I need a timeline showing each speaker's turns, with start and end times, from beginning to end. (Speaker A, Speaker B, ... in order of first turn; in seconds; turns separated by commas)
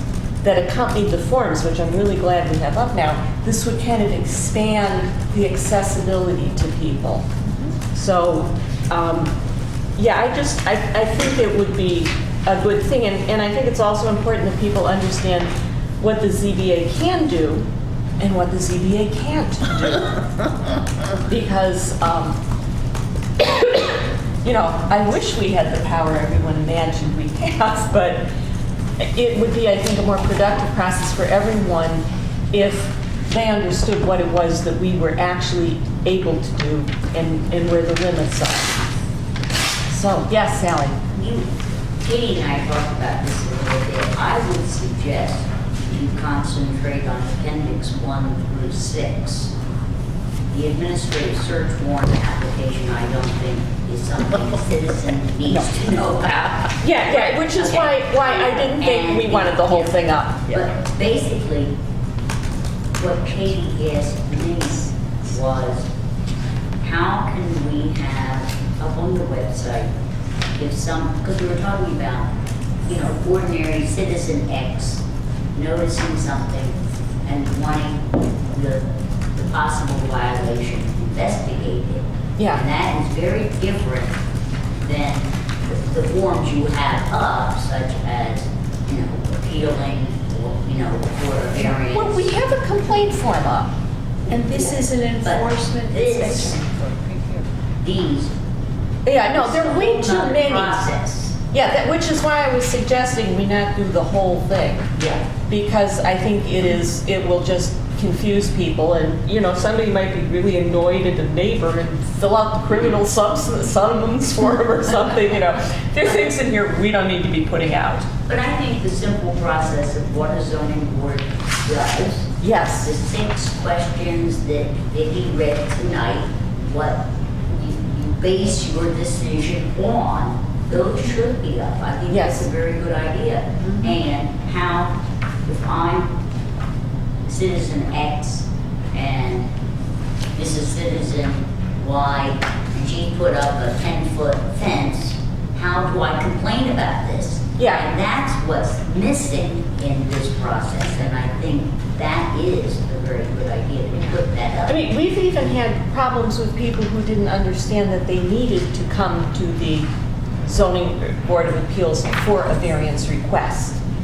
Speaker A: 0.4-7.2, Speaker A: 7.9-9.3, Speaker A: 10.0-17.7, Speaker A: 18.2-20.2, Speaker A: 21.2-22.4, Speaker A: 23.4-28.2, Speaker A: 29.0-38.8, Speaker A: 39.9-41.0, Speaker B: 41.1-41.5, Speaker B: 42.0-49.5, Speaker B: 50.5-61.7, Speaker A: 56.8-60.6, Speaker B: 63.0-65.9, Speaker B: 66.8-69.9, Speaker B: 70.5-72.3, Speaker B: 72.8-75.0, Speaker B: 75.5-78.8, Speaker B: 79.3-84.1, Speaker A: 82.4-82.6, Speaker B: 84.8-92.3, Speaker A: 91.8-93.7, Speaker C: 94.3-97.5, Speaker B: 94.5-96.6, Speaker B: 97.8-98.3, Speaker A: 99.0-100.8, Speaker B: 99.3-101.3, Speaker A: 101.5-104.9, Speaker B: 104.9-105.3, Speaker A: 105.5-118.1, Speaker B: 118.3-136.1, Speaker A: 122.4-122.9, Speaker A: 132.1-132.5, Speaker B: 137.3-139.5, Speaker B: 140.3-154.8, Speaker A: 147.6-147.9, Speaker A: 154.7-159.9, Speaker A: 160.4-163.8